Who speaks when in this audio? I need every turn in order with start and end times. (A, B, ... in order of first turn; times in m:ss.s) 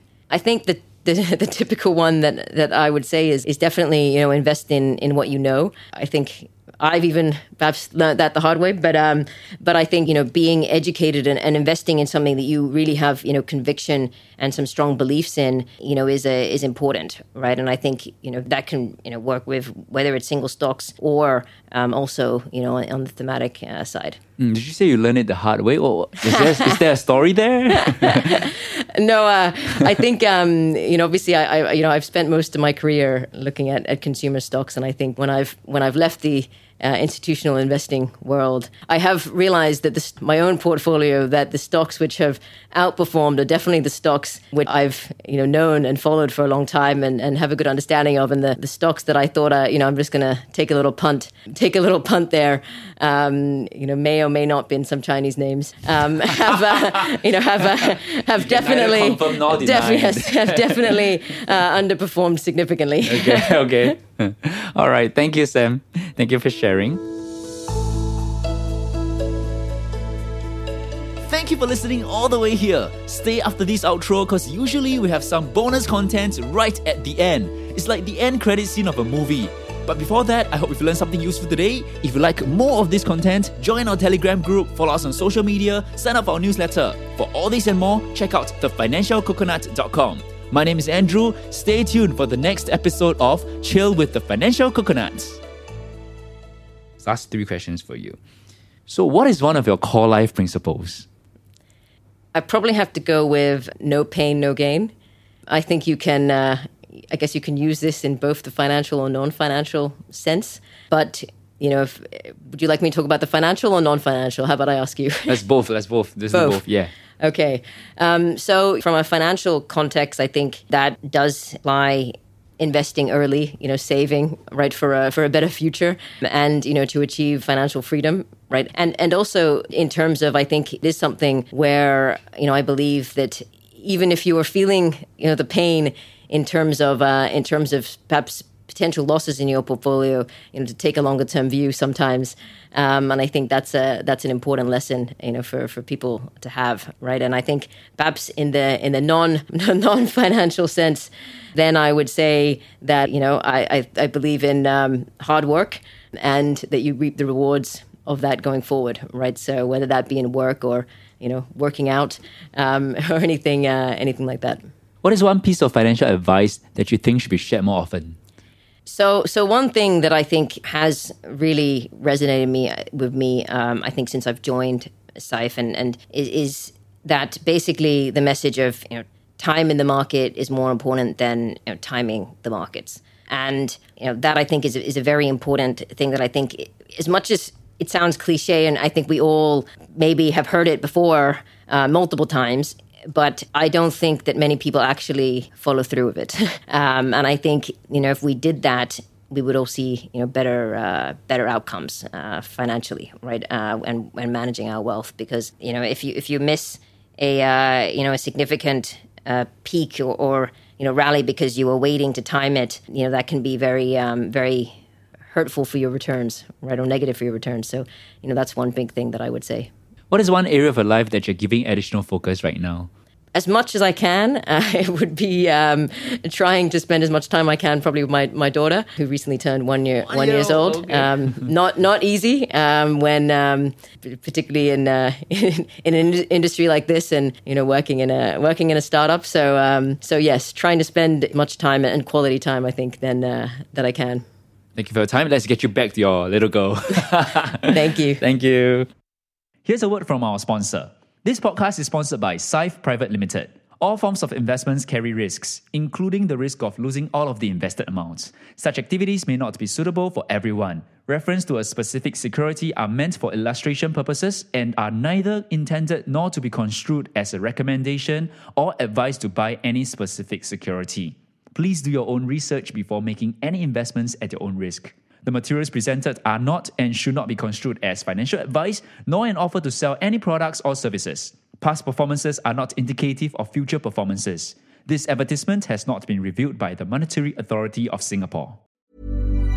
0:00.3-0:24.2 A
0:24.4-0:28.4 B
0:26.3-0:26.8 A
0:27.7-1:03.8 A
0:56.7-0:57.1 B
0:57.8-1:01.0 B
1:03.0-1:07.0 B
1:11.2-1:35.4 B
1:37.0-1:38.2 B
1:38.9-1:41.1 B
1:42.3-1:44.9 A
1:45.5-1:55.4 A
1:55.3-1:56.9 B
1:56.3-1:56.6 A
1:57.2-2:44.6 A
2:45.0-2:48.2 B
2:48.8-3:34.7 A
3:35.3-3:39.7 A
3:40.1-3:42.9 B
3:43.3-4:04.2 A
3:50.0-3:51.5 B
4:04.8-4:08.9 B
4:07.7-4:08.2 A
4:09.6-4:48.6 B